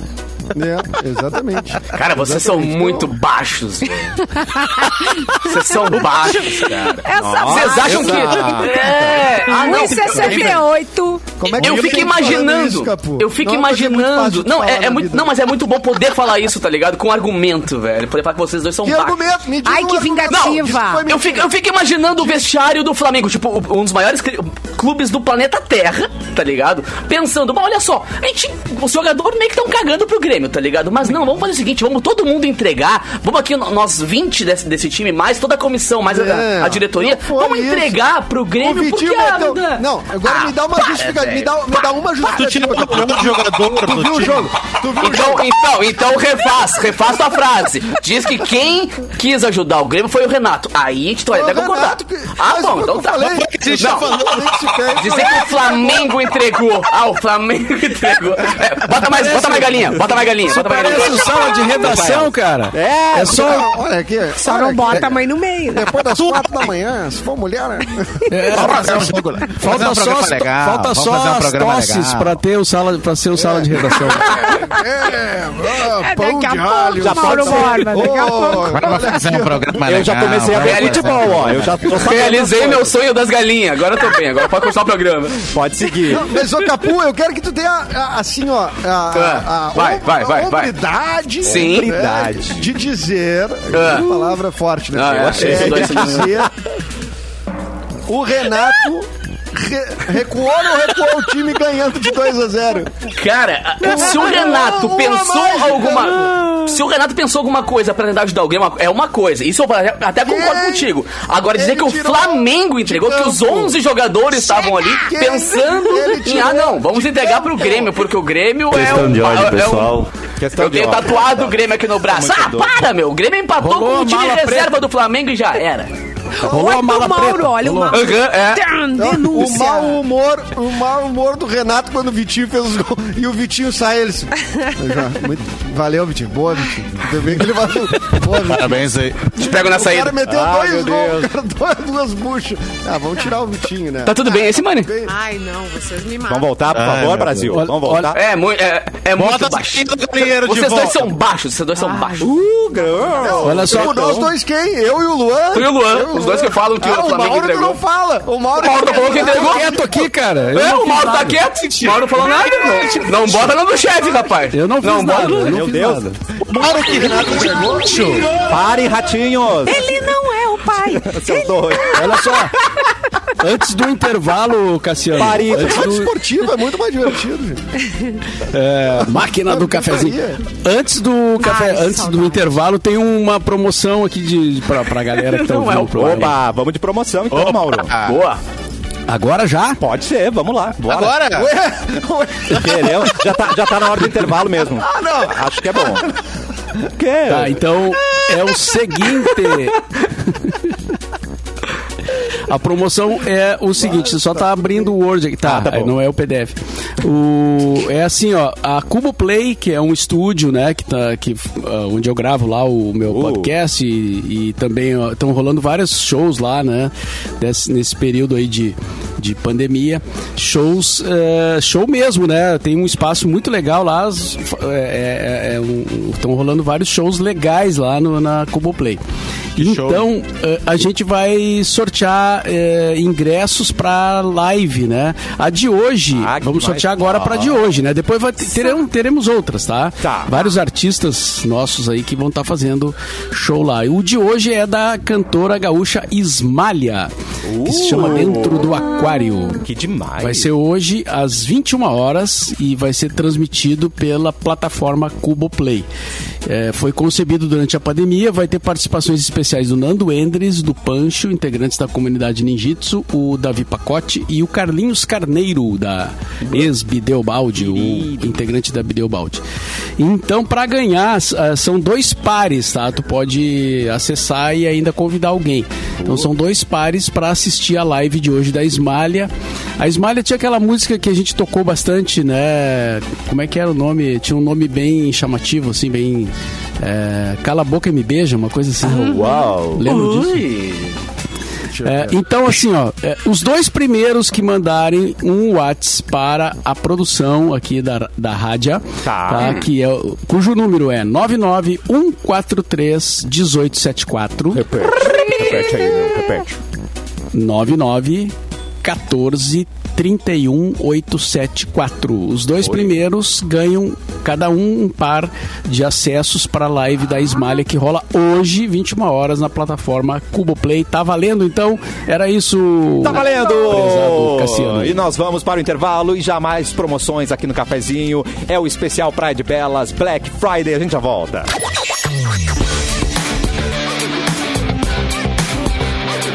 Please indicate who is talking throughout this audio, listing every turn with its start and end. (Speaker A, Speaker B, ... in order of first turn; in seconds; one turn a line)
Speaker A: 0.5-3.1
Speaker B: 1.9-4.4
Speaker C: 4.3-11.3
Speaker B: 5.0-10.6
Speaker D: 6.2-6.7
Speaker E: 7.1-8.7
Speaker D: 7.9-8.6
Speaker D: 10.0-10.7
Speaker A: 11.4-15.3
Speaker B: 11.4-19.2
Speaker D: 11.6-12.2
Speaker A: 18.8-21.5
Speaker C: 19.6-21.1
Speaker B: 20.3-41.5
Speaker A: 36.1-38.0
Speaker A: 38.6-45.5
Speaker D: 42.2-44.5
Speaker B: 45.0-54.1
Speaker A: 51.3-56.1
Speaker D: 53.2-54.8
Speaker B: 54.9-61.5
Speaker F: 59.1-59.6
Speaker F: 60.5-63.6
Speaker E: 61.8-63.6
Speaker A: 63.2-65.2
Speaker C: 64.4-65.9
Speaker A: 65.7-68.9
Speaker D: 66.1-66.7
Speaker F: 68.3-74.5
Speaker C: 68.4-68.7
Speaker D: 68.5-72.4
Speaker A: 73.3-79.8
Speaker C: 75.8-79.1
Speaker E: 77.0-78.1
Speaker D: 78.5-81.9
Speaker E: 79.8-83.0
Speaker B: 80.5-85.5
Speaker E: 85.5-86.3
Speaker A: 86.0-96.5
Speaker B: 89.1-90.7
Speaker B: 91.4-91.9
Speaker E: 91.4-92.7
Speaker B: 93.7-94.1
Speaker B: 94.9-96.4
Speaker E: 95.2-96.5
Speaker A: 98.1-103.0
Speaker B: 103.0-125.9
Speaker A: 103.8-106.6
Speaker A: 110.2-111.0
Speaker A: 111.5-113.8
Speaker A: 114.7-118.0
Speaker E: 118.8-122.8
Speaker F: 119.0-119.3
Speaker F: 123.6-124.7
Speaker C: 126.3-130.0
Speaker F: 126.5-128.1
Speaker E: 126.5-127.3
Speaker B: 127.9-128.6
Speaker A: 129.0-138.8
Speaker D: 138.4-139.3
Speaker B: 139.3-140.2
Speaker A: 139.4-145.1
Speaker E: 140.2-141.3
Speaker B: 144.0-144.9
Speaker C: 145.0-146.6
Speaker E: 146.3-148.2
Speaker D: 146.7-147.5
Speaker F: 147.5-148.2
Speaker B: 148.1-152.3
Speaker D: 149.1-151.1
Speaker C: 151.8-153.5
Speaker E: 152.2-154.1
Speaker A: 153.2-160.1
Speaker F: 153.4-154.3
Speaker B: 155.5-157.8
Speaker B: 158.6-159.8
Speaker F: 159.2-161.4
Speaker B: 160.5-165.6
Speaker D: 161.5-163.5
Speaker F: 164.5-166.2
Speaker E: 165.4-166.1
Speaker D: 166.4-168.3
Speaker A: 166.5-168.1
Speaker E: 168.4-170.1
Speaker C: 169.6-172.4
Speaker E: 170.7-172.4
Speaker F: 171.9-172.6
Speaker F: 173.4-176.1
Speaker E: 175.1-176.1
Speaker A: 175.5-177.6
Speaker C: 177.8-178.2
Speaker F: 178.4-186.3
Speaker A: 179.0-180.4
Speaker C: 181.4-182.6
Speaker B: 185.1-186.3
Speaker E: 185.9-187.9
Speaker D: 187.3-188.2
Speaker B: 188.0-188.4
Speaker F: 189.1-189.8
Speaker E: 189.8-191.3
Speaker D: 190.8-191.5
Speaker A: 191.3-193.2
Speaker E: 192.5-196.1
Speaker A: 194.8-196.1
Speaker E: 196.8-197.6
Speaker F: 197.3-200.8
Speaker F: 202.2-229.0
Speaker A: 203.8-204.9
Speaker E: 205.4-205.9
Speaker E: 213.1-213.5
Speaker F: 229.6-247.1
Speaker D: 229.6-230.1
Speaker E: 236.1-237.5
Speaker E: 240.0-240.4
Speaker E: 247.4-248.7
Speaker F: 247.6-249.6
Speaker E: 249.6-250.5
Speaker F: 250.2-255.9
Speaker F: 256.4-269.4
Speaker E: 267.5-268.4
Speaker F: 270.0-290.5
Speaker E: 276.0-276.3
Speaker E: 288.8-289.9
Speaker C: 289.0-289.3
Speaker B: 289.8-291.0
Speaker A: 291.7-292.2
Speaker F: 291.8-304.6
Speaker E: 299.0-299.6
Speaker E: 304.5-306.6
Speaker B: 304.8-306.1
Speaker C: 305.1-305.6
Speaker F: 307.3-325.0
Speaker E: 312.6-313.0
Speaker E: 323.0-331.5